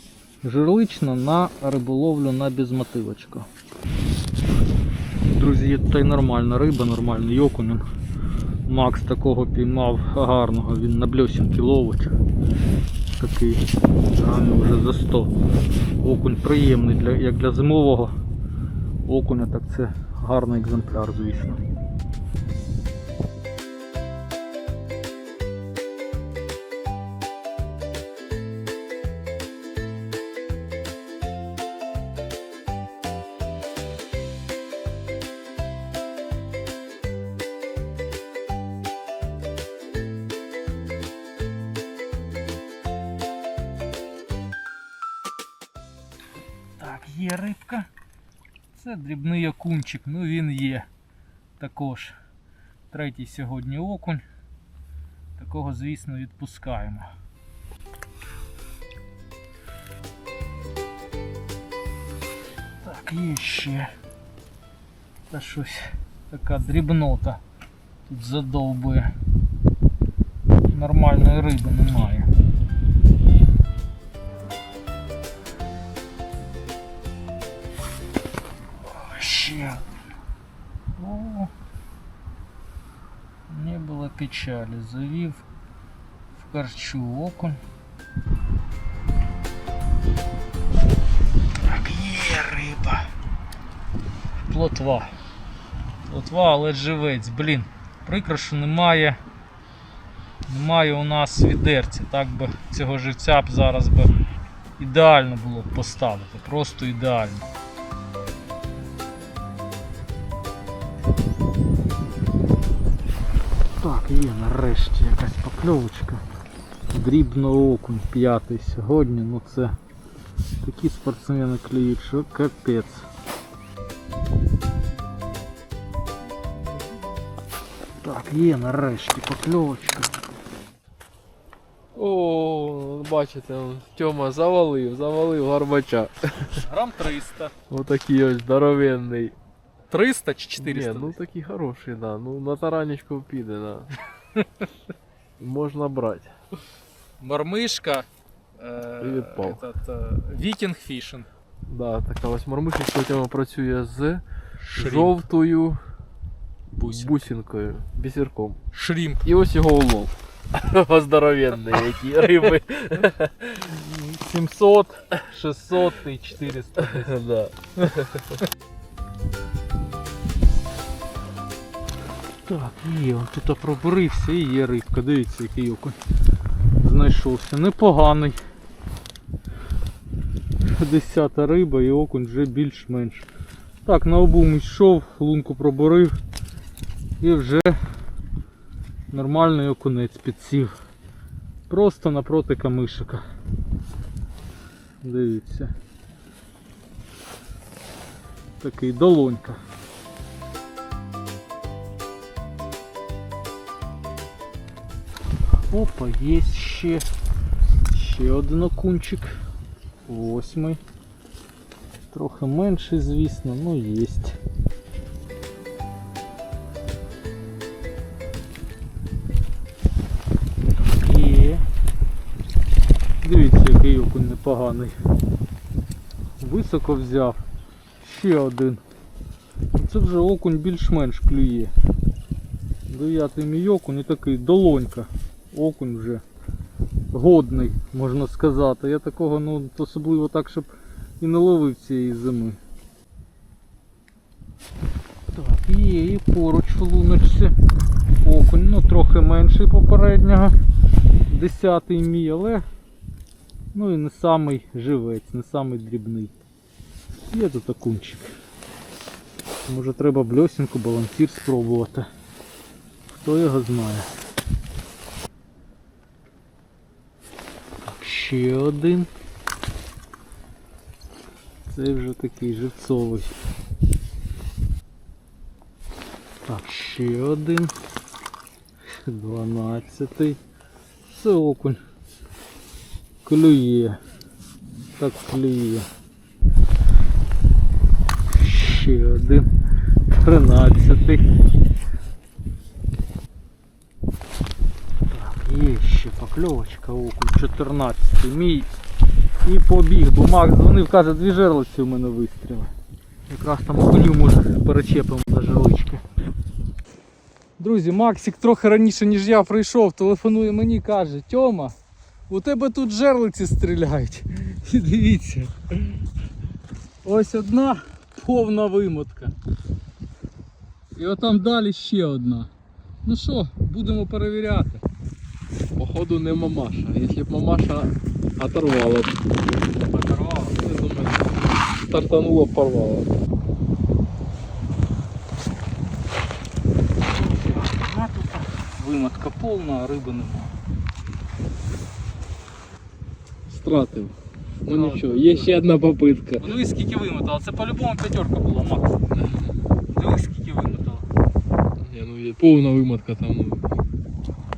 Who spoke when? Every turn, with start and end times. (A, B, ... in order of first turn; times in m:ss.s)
0:00.4-0:03.5 A
0:05.2-0:07.8 A
0:08.7-0:12.1 A
0:13.2-0:13.6 A
0:14.1-0:15.3 A
0:16.0-0:18.1 A
0:19.1-0:21.6 A
0:46.8-0:47.9 A
0:48.7-0:50.9 A
0:51.6-0:52.1 A
0:52.9-0:54.2 A
0:55.4-0:57.1 A
1:02.8-1:03.9 A
1:05.3-1:07.4 A
1:08.1-1:09.1 A
1:10.7-1:12.3 A
1:18.8-1:19.8 A
1:21.0-1:21.5 A
1:23.5-1:25.4 A
1:26.4-1:27.6 A
1:31.6-1:33.1 A
1:34.4-1:35.1 A
1:36.1-1:39.2 A
1:40.5-1:44.1 A
1:44.8-1:47.4 A
1:53.8-1:56.2 A
1:56.9-1:59.7 A
2:00.6-2:03.0 A
2:08.0-2:10.1 A
2:11.9-2:16.6 B
2:16.5-2:17.5 A
2:17.7-2:19.4 B
2:19.9-2:21.2 A
2:20.6-2:24.0 B
2:25.4-2:26.3 B
2:27.2-2:28.0 A
2:28.6-2:31.3 A
2:29.0-2:29.6 B
2:31.6-2:35.8 B
2:34.6-2:35.2 A
2:36.7-2:37.3 A
2:36.8-2:38.6 B
2:38.7-2:39.2 A
2:39.2-2:43.7 B
2:43.6-2:47.1 A
2:46.8-2:48.3 B
2:52.5-2:56.0 A
2:56.8-2:58.4 A
3:00.6-3:03.3 A
3:03.8-3:06.2 A
3:07.2-3:07.8 A
3:09.1-3:10.8 A
3:11.7-3:13.2 A
3:15.0-3:15.7 A
3:18.6-3:19.6 A
3:25.7-3:27.0 A
3:27.9-3:29.4 A
3:30.1-3:30.8 A
3:32.1-3:34.4 A
3:40.8-3:41.6 A
3:43.2-3:45.0 A
3:46.4-3:47.4 A
3:48.0-3:48.8 A
3:49.7-3:51.7 A
3:52.9-3:56.2 A
3:57.1-4:02.6 A
4:05.3-4:07.5 A
4:08.2-4:10.5 A
4:11.3-4:12.6 A
4:13.7-4:16.3 A
4:17.3-4:18.3 A
4:19.7-4:22.1 A
4:23.2-4:24.1 A
4:27.8-4:29.1 A
4:31.7-4:33.3 A
4:36.5-4:37.7 A
4:39.0-4:40.4 A
4:41.1-4:41.8 A
4:43.2-4:44.0 A
4:45.0-4:45.9 A
4:48.3-4:49.5 A
4:50.1-4:51.3 A
4:55.1-4:58.7 A
4:59.4-5:02.7 A
5:03.3-5:06.0 A
5:07.6-5:11.7 A
5:12.3-5:15.9 A
5:17.0-5:19.3 A
5:21.0-5:22.5 A
5:23.0-5:24.8 A
5:25.8-5:29.2 B
5:29.8-5:30.6 A
5:30.5-5:33.1 B
5:37.1-5:40.5 A
5:43.5-5:46.5 B
5:44.7-5:45.5 A
5:46.4-5:49.0 A
5:49.1-5:49.6 B
5:49.9-5:51.1 A
5:51.8-5:53.8 B